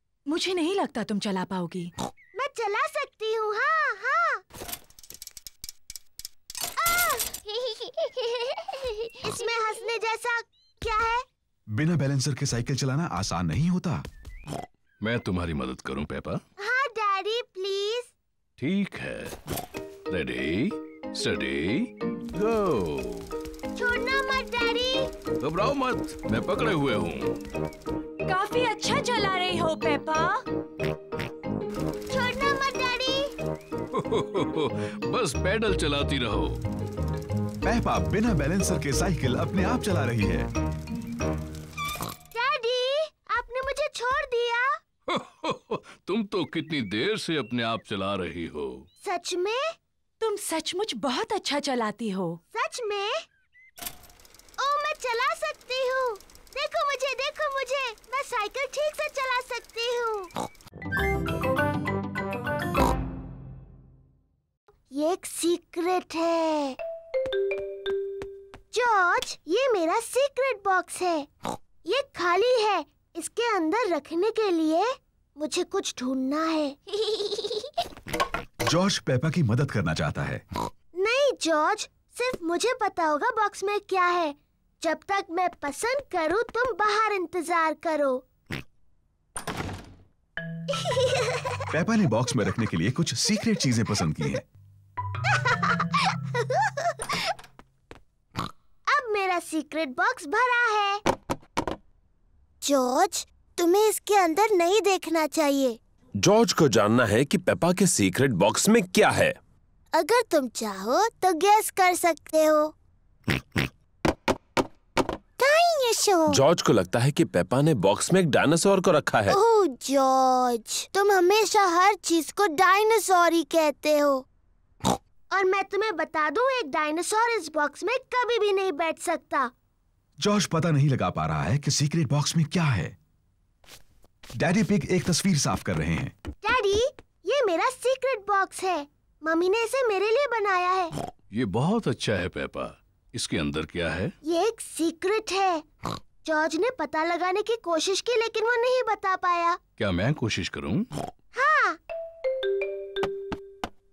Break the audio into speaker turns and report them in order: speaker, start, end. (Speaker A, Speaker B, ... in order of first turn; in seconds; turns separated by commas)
Speaker A: 0.3-1.9, Speaker B: 2.4-4.4, Speaker B: 6.8-7.3, Speaker B: 9.2-11.2, Speaker C: 11.7-14.1, Speaker D: 15.0-16.4, Speaker B: 16.6-18.1, Speaker D: 18.6-19.4, Speaker D: 20.1-23.3, Speaker B: 23.8-25.1, Speaker D: 25.4-27.4, Speaker A: 28.3-30.4, Speaker B: 32.1-33.3, Speaker D: 33.9-36.6, Speaker C: 37.6-40.5, Speaker B: 42.3-44.8, Speaker D: 45.1-48.9, Speaker B: 49.0-49.7, Speaker A: 50.2-52.4, Speaker B: 52.5-53.2, Speaker B: 54.6-60.3, Speaker B: 64.9-66.8, Speaker B: 68.7-71.3, Speaker B: 71.8-76.8, Speaker C: 78.7-80.4, Speaker B: 81.0-88.2, Speaker B: 90.8-91.4, Speaker C: 91.7-94.5, Speaker B: 98.9-101.0, Speaker B: 102.6-105.8, Speaker E: 106.2-109.4, Speaker B: 109.9-112.7, Speaker B: 115.4-116.4, Speaker E: 116.3-119.4, Speaker B: 119.3-124.2, Speaker B: 125.3-129.5, Speaker C: 130.2-132.9, Speaker C: 134.3-136.1, Speaker B: 136.4-140.9, Speaker D: 141.3-144.1, Speaker B: 144.2-145.7, Speaker B: 146.2-149.6, Speaker D: 149.8-150.9, Speaker B: 151.3-151.8